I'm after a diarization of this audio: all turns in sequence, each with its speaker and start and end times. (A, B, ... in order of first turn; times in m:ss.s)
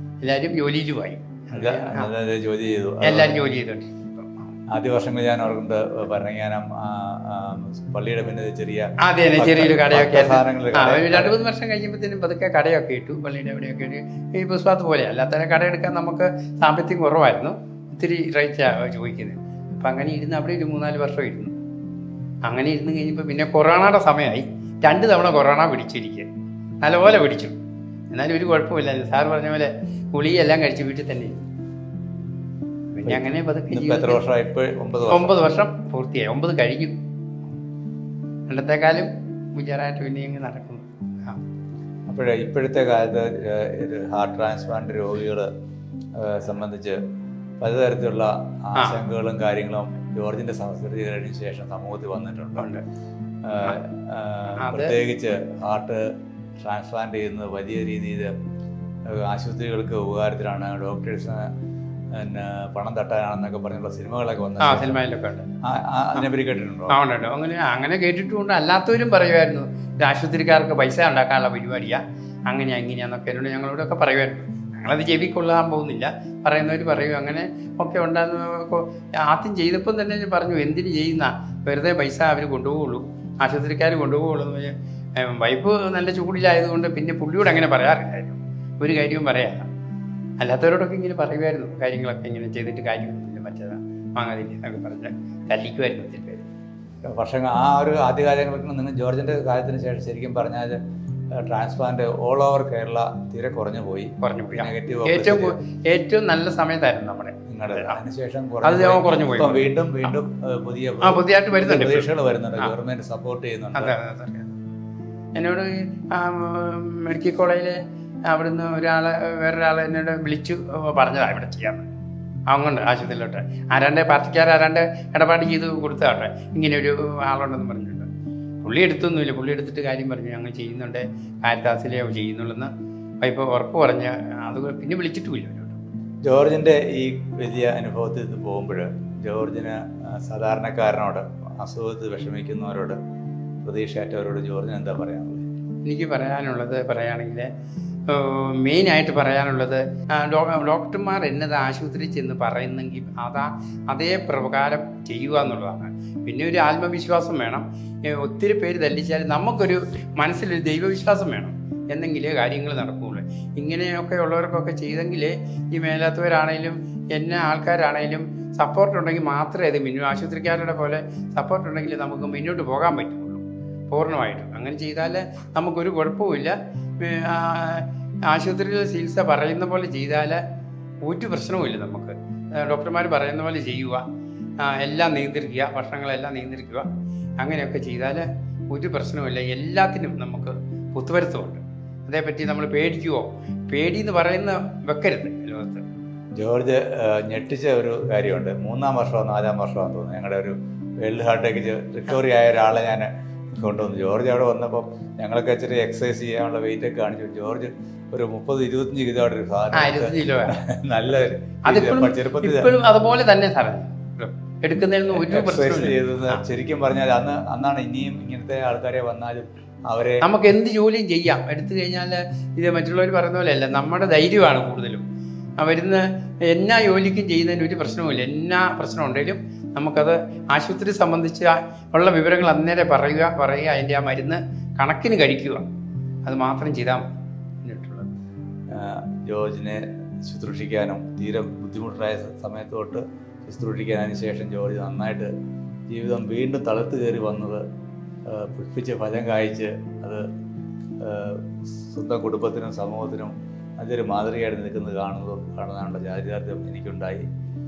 0:00.2-0:02.1 A
0:01.5-0:03.5 B
0:03.0-0:04.4 A
0:04.7-0:11.4 B
0:09.0-0:21.6 A
0:22.4-0:26.3 A
0:26.8-0:27.6 A
0:28.1-0:31.5 A
0:32.9-0:34.2 A
0:33.0-0:35.4 B
0:35.1-0:37.0 A
0:38.5-0:41.4 A
0:42.1-0:45.5 B
0:46.1-0:47.0 B
0:47.6-0:52.7 B
0:48.8-0:49.0 A
0:52.6-0:52.8 A
0:53.4-0:58.3 B
0:54.6-0:55.0 A
0:59.1-1:01.5 B
1:02.1-1:05.0 B
1:04.6-1:05.6 A
1:05.6-1:07.0 B
1:06.9-1:29.7 A
1:30.4-1:36.4 A
1:37.1-1:40.8 B
1:41.3-1:45.6 B
1:44.2-1:48.0 A
1:47.5-1:53.9 B
1:48.6-1:49.7 A
1:51.0-1:52.7 A
1:53.8-1:54.6 A
1:55.4-2:01.9 A
2:02.5-2:08.1 A
2:08.6-2:12.7 A
2:13.2-2:15.8 A
2:16.2-2:23.0 B
2:23.6-2:25.4 B
2:25.8-2:27.5 A
2:28.1-3:00.4 A
3:01.0-3:04.0 A
3:04.6-3:06.9 A
3:07.4-3:15.8 A
3:16.4-3:32.7 B
3:29.7-3:30.6 A
3:31.6-3:36.4 A
3:35.1-3:40.3 B
3:40.2-3:45.0 A
3:45.6-3:55.7 A
3:56.2-3:57.1 A
3:57.6-3:58.1 A
3:58.7-4:05.3 B
4:05.9-4:07.6 B
4:08.2-4:10.2 B
4:11.0-4:17.3 B